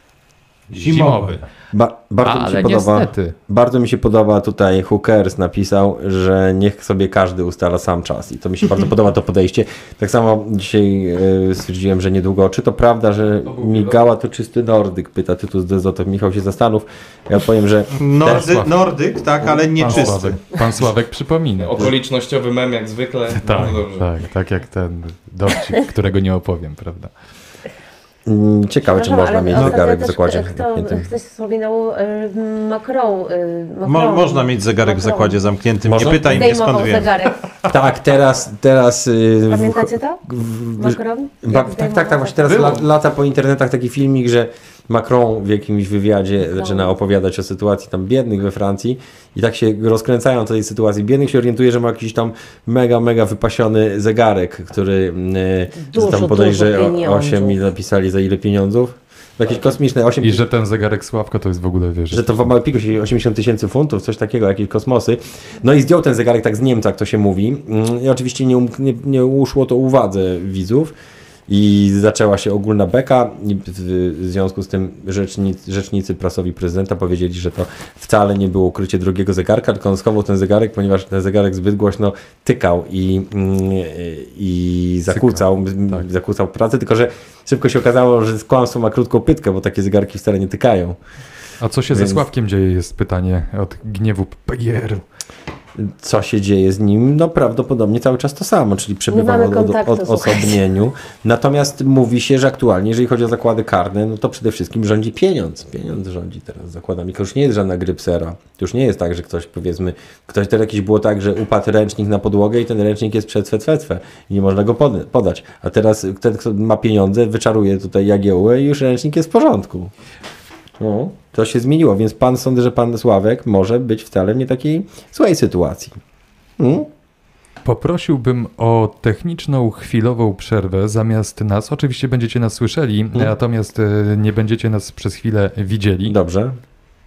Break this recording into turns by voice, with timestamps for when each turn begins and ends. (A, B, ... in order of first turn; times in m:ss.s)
0:00.7-0:01.5 A
0:00.8-0:01.4 B
0:01.7-0:18.6 C
0:02.2-0:03.4 A
0:13.4-0:14.0 A
0:18.0-0:20.4 B
0:18.2-0:18.7 A
0:19.7-0:21.9 A
0:21.6-0:24.0 D
0:23.4-0:27.1 A
0:28.2-0:31.1 C
0:28.8-0:35.4 E
0:33.8-0:37.1 B
0:35.8-0:36.6 C
0:36.0-0:37.4 E
0:37.7-1:00.5 C
0:39.5-0:40.2 E
0:40.8-0:42.7 E
0:42.5-0:42.8 A
0:46.4-0:46.9 E
0:55.8-0:57.6 E
1:00.2-1:02.4 A
1:02.1-1:10.9 C
1:11.5-1:31.0 C
1:25.1-1:26.0 A
1:31.6-1:35.0 A
1:31.9-1:32.2 C
1:35.8-1:59.9 C
1:39.1-1:40.6 E
2:00.8-2:06.0 C
2:06.6-2:06.9 C
2:07.6-2:16.2 A
2:16.1-2:16.6 C